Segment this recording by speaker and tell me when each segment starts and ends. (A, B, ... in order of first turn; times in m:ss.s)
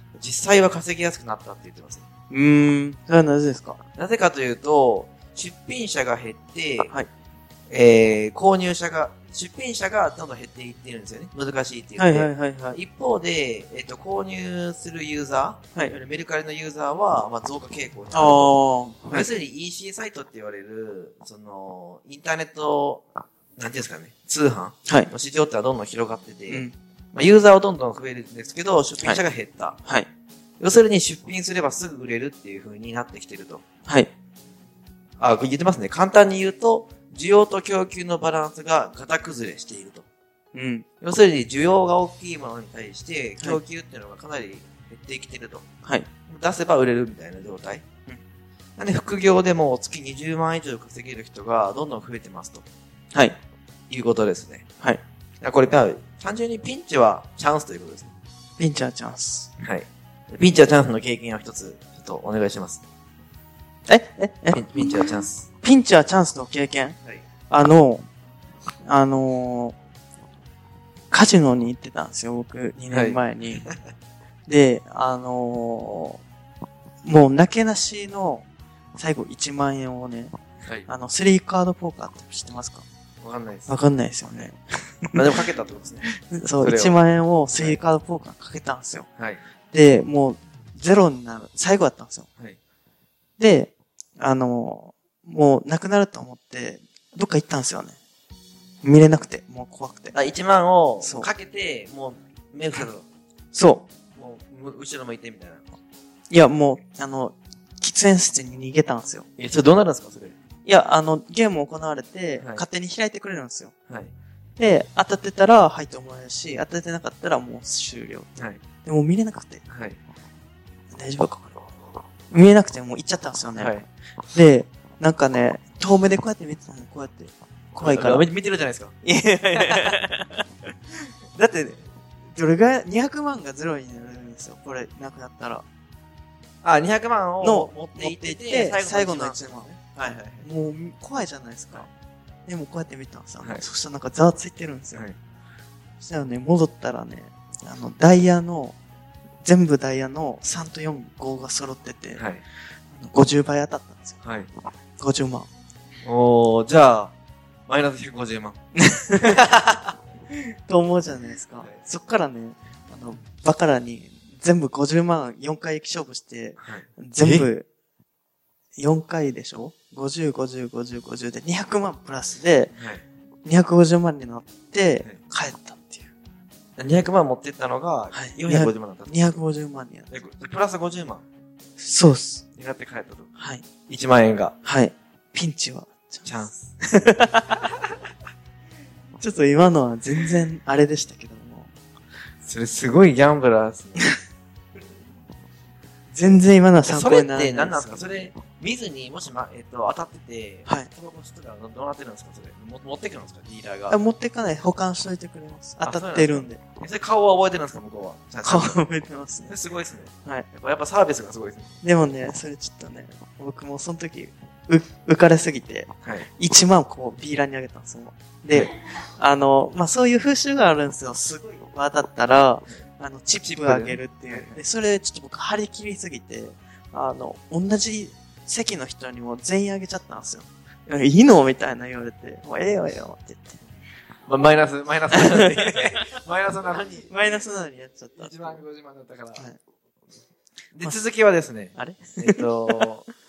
0:00.2-0:02.0 A
0:02.3-0:03.8 B
0:04.0-0:07.0 A
0:07.7-0:18.6 A
0:12.0-0:12.8 B
0:18.1-0:19.3 B
0:19.1-0:23.1 A
0:23.6-0:29.8 A
0:30.6-0:33.6 A
0:33.9-0:34.1 B
0:35.2-0:40.1 A
0:40.5-0:40.8 B
0:41.0-0:45.7 A
0:46.3-0:47.8 A
0:48.8-0:52.6 A
0:53.9-0:54.6 A
0:55.4-0:58.1 A
0:58.6-0:59.5 B
0:59.6-1:02.8 A
1:03.9-1:04.6 B
1:04.5-1:05.5 A
1:05.6-1:07.0 B
1:07.5-1:08.0 B
1:08.8-1:09.8 B
1:11.1-1:13.6 B
1:12.9-1:13.7 A
1:14.5-1:16.2 B
1:17.0-1:18.4 B
1:19.0-1:20.3 B
1:20.9-1:22.8 B
1:23.2-1:24.5 A
1:23.7-1:25.4 B
1:25.1-1:27.0 A
1:26.2-1:29.1 B
1:27.5-1:27.8 A
1:29.7-1:32.3 B
1:33.4-1:38.0 B
1:38.8-1:40.1 B
1:40.1-1:43.0 A
1:41.0-1:41.3 B
1:43.5-1:43.9 B
1:44.1-1:45.6 A
1:46.3-1:49.3 B
1:49.4-1:50.4 A
1:50.6-1:53.8 B
1:52.4-1:52.6 A
1:54.6-1:59.6 B
1:58.4-1:58.6 A
1:59.7-2:00.0 A
2:00.9-2:01.6 B
2:02.3-2:03.7 B
2:03.5-2:03.9 A
2:04.3-2:08.3 B
2:07.8-2:08.9 A
2:09.0-2:10.5 B
2:09.6-2:09.9 A
2:11.4-2:11.8 B
2:12.3-2:15.6 B
2:16.6-2:20.5 A
2:17.4-2:21.9 B
2:22.5-2:25.0 B
2:26.0-2:28.8 B
2:29.4-2:32.2 B
2:32.2-2:32.4 A
2:32.9-2:34.2 B
2:34.2-2:34.5 A
2:35.0-2:35.5 B
2:36.0-2:37.1 A
2:37.7-2:38.6 A
2:38.8-2:39.4 B
2:39.2-2:39.9 A
2:40.3-2:47.7 B
2:46.6-2:47.5 A
2:48.8-2:52.7 B
2:52.8-2:53.0 A
2:53.4-2:56.1 B
2:56.8-2:59.4 A
2:58.1-3:00.1 B
3:00.1-3:01.2 A
3:01.8-3:02.4 B
3:02.5-3:03.3 A
3:03.4-3:03.6 B
3:03.9-3:04.5 A
3:04.6-3:06.3 B
3:06.2-3:06.7 A
3:06.9-3:07.5 B
3:09.2-3:11.7 B
3:12.4-3:14.1 A
3:16.1-3:18.3 B
3:16.8-3:24.0 A
3:23.9-3:26.6 B
3:25.8-3:28.8 A
3:28.4-3:29.5 B
3:29.5-3:31.8 A
3:31.8-3:53.6 B
3:43.4-3:44.6 A
3:54.3-3:57.4 A
3:55.1-3:56.0 B
3:57.1-3:58.4 B
3:58.2-3:59.5 A
4:00.7-4:03.1 A
4:01.8-4:02.9 B